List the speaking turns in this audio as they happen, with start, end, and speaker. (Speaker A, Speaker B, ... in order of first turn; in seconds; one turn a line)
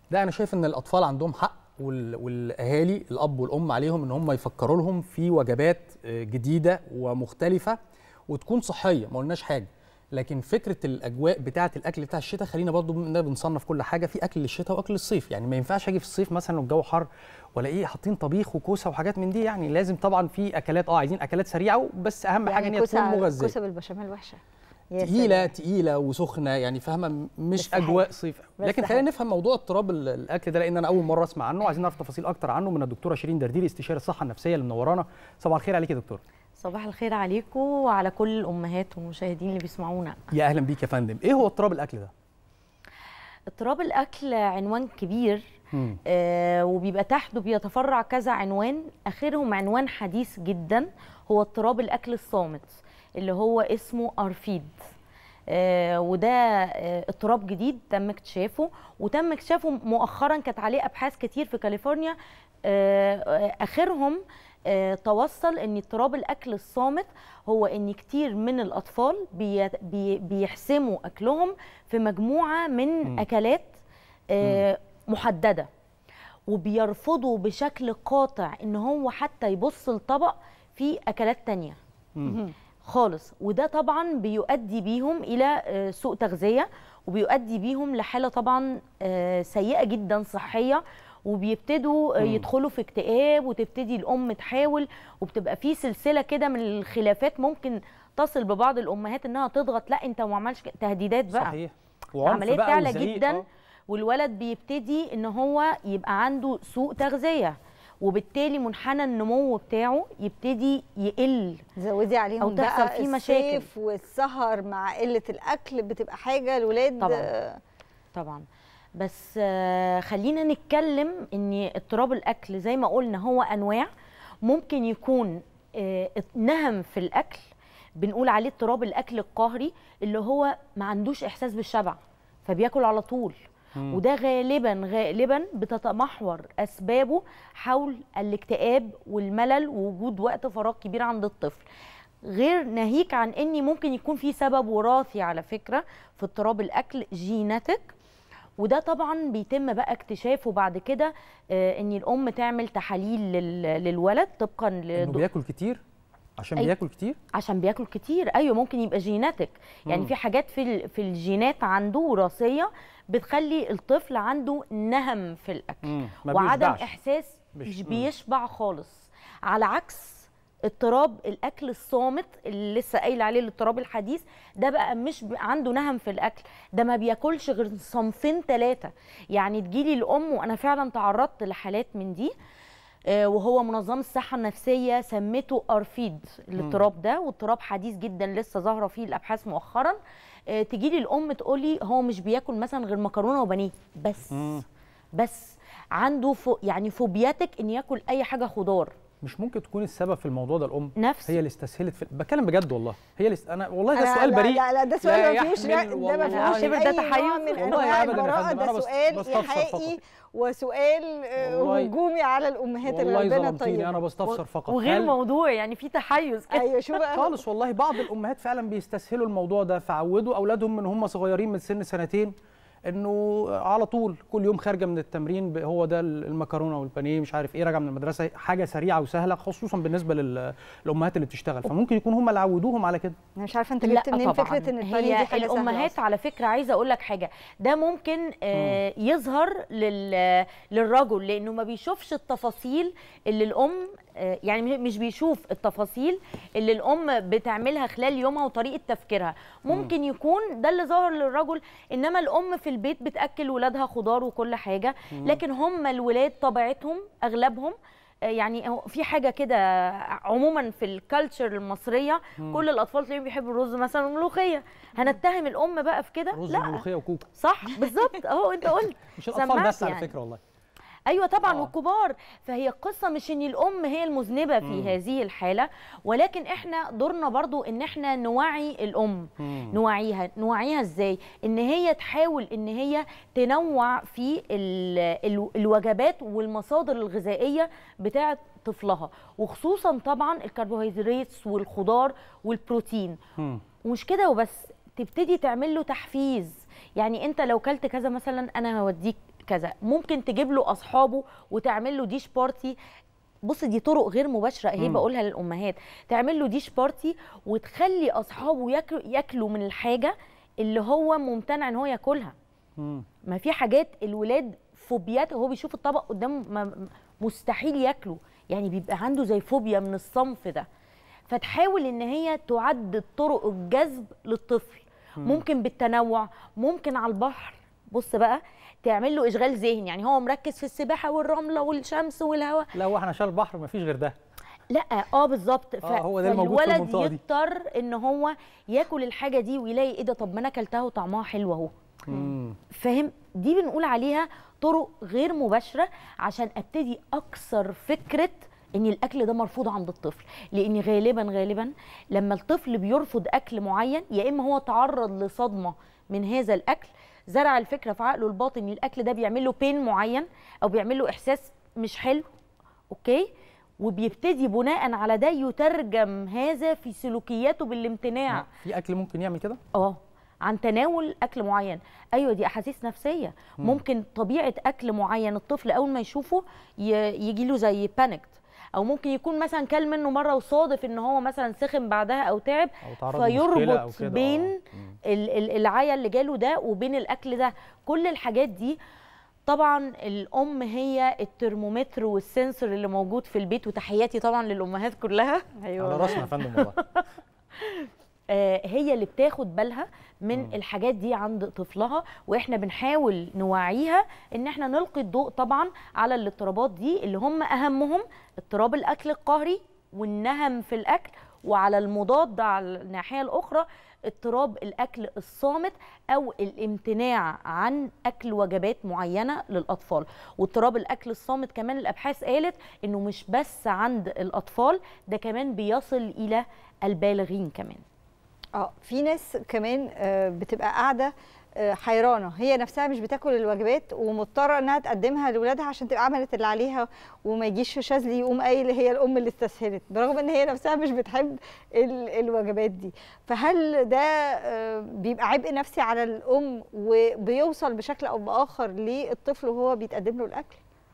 Speaker A: 0.1-7.8
Speaker A: 8.3-23.5
Speaker B: 22.4-24.4
Speaker B: 24.9-25.5
Speaker A: 25.0-36.2
Speaker B: 27.6-28.1
Speaker B: 28.6-29.1
Speaker C: 36.6-40.2
Speaker A: 40.3-42.1
Speaker C: 43.5-45.4
Speaker A: 45.7-46.0
Speaker C: 46.0-54.7
Speaker C: 55.5-73.8
Speaker C: 74.3-75.7
Speaker C: 76.5-81.8
Speaker A: 82.2-82.5
Speaker C: 82.8-101.5
Speaker A: 92.2-92.5
Speaker A: 101.3-103.4
Speaker C: 102.2-111.6
Speaker B: 111.8-117.6
Speaker C: 112.4-113.7
Speaker C: 117.0-117.3
Speaker C: 118.1-118.4
Speaker C: 119.0-123.9
Speaker C: 124.4-127.4
Speaker C: 128.0-133.3
Speaker A: 133.8-134.0
Speaker C: 133.9-141.6
Speaker C: 142.3-147.9
Speaker C: 148.6-155.2
Speaker A: 154.9-155.8
Speaker A: 156.4-157.2
Speaker C: 157.3-182.3
Speaker A: 159.9-160.1
Speaker A: 165.8-166.9
Speaker A: 167.5-168.1
Speaker C: 183.1-190.0
Speaker C: 190.5-194.6
Speaker A: 194.3-194.6
Speaker C: 195.2-198.9
Speaker A: 199.2-210.0
Speaker C: 200.9-201.4
Speaker B: 203.9-214.0
Speaker C: 206.2-208.4
Speaker A: 211.4-211.9
Speaker A: 212.8-215.2
Speaker C: 214.2-217.2
Speaker B: 216.5-217.3
Speaker A: 217.0-222.3
Speaker A: 222.9-233.2
Speaker B: 233.4-235.9
Speaker C: 233.8-270.1
Speaker A: 238.5-238.8
Speaker A: 255.1-255.4
Speaker A: 262.4-262.6
Speaker A: 266.3-267.3
Speaker A: 269.1-270.4
Speaker C: 271.1-293.2
Speaker A: 271.4-271.7
Speaker A: 274.6-275.0
Speaker A: 279.4-279.8
Speaker A: 293.4-293.6
Speaker C: 293.8-302.8
Speaker C: 303.4-312.3
Speaker A: 304.8-305.0
Speaker A: 312.8-313.1
Speaker C: 313.3-320.6
Speaker C: 321.3-332.7
Speaker A: 325.2-325.4
Speaker A: 332.7-334.1
Speaker C: 334.7-341.7
Speaker A: 335.8-337.2
Speaker A: 342.1-342.6
Speaker C: 342.7-362.3
Speaker C: 362.9-363.3
Speaker C: 363.8-368.4
Speaker A: 368.3-369.6
Speaker C: 369.7-388.8
Speaker A: 382.8-385.0
Speaker C: 389.4-395.5
Speaker B: 395.6-396.3
Speaker A: 395.8-396.8
Speaker C: 396.1-397.0
Speaker C: 397.6-427.8
Speaker B: 428.6-450.6